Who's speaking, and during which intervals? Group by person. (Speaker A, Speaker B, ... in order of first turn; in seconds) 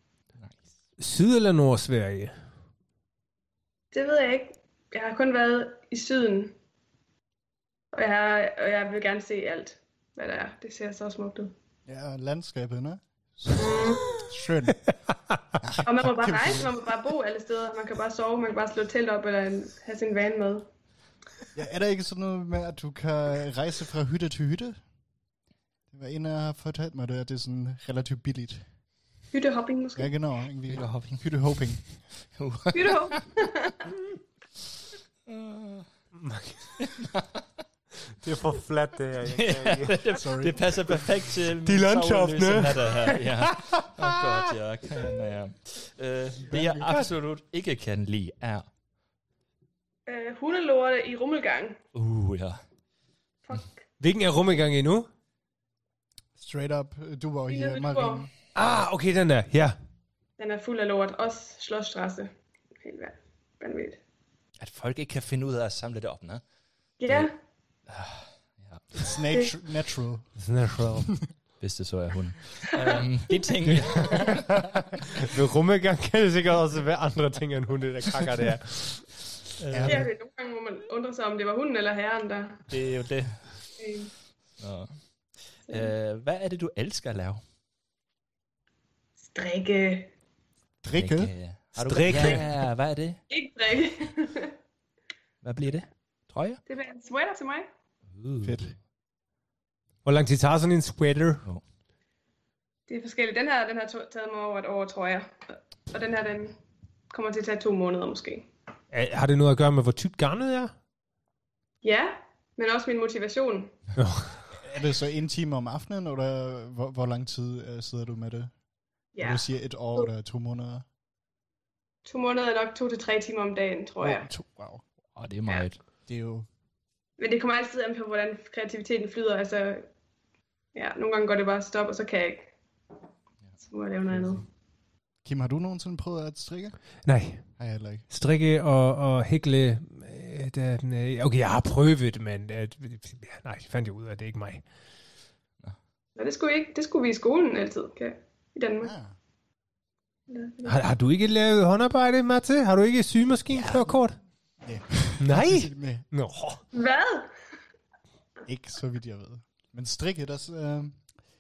Speaker A: 1.0-2.3, 36.1-36.7, 38.2-40.0, 41.6-44.2, 54.0-55.1, 58.5-59.8, 70.4-71.1, 73.7-79.0, 91.8-92.6, 100.0-101.4, 108.9-110.7, 114.0-114.3, 137.0-137.4, 138.1-144.6, 150.6-154.2, 155.2-156.6
Speaker B: 3.9-6.5, 7.9-11.5, 13.5-14.0, 15.8-20.7, 29.3-30.1, 32.7-33.9, 50.1-51.8, 53.5-53.8, 57.5-58.3, 60.4-64.0, 67.0-67.3, 79.8-82.6, 83.8-84.1, 89.3-90.1, 93.3-94.5, 96.7-97.7, 102.9-106.6, 107.1-108.5, 111.8-113.7, 119.1-120.1, 122.0-124.3, 127.2-129.9, 130.7-132.5, 133.6-134.4, 146.2-148.9, 150.3-150.8, 156.7-157.3
Speaker C: 11.8-14.8, 15.6-16.8, 21.5-24.8, 25.9-28.6, 29.9-31.8, 40.1-40.6, 46.5-46.9, 56.4-58.3, 68.9-70.3, 79.7-80.1, 90.8-91.3, 98.4-98.7, 114.6-118.5, 119.2-120.8, 124.0-124.8, 126.1-126.5, 135.2-136.8, 137.6-138.0, 148.8-149.1, 153.6-154.0, 154.6-156.0, 158.4-161.0
Speaker D: 30.7-31.2, 32.4-33.2, 35.3-35.9, 36.8-37.4, 39.3-48.7, 51.9-52.6, 64.6-66.4, 67.9-69.1, 71.6-74.7, 79.6-80.1, 82.7-83.4, 84.6-84.9, 85.7-87.4, 90.9-93.2, 95.4-96.6, 98.1-98.7, 125.2-125.8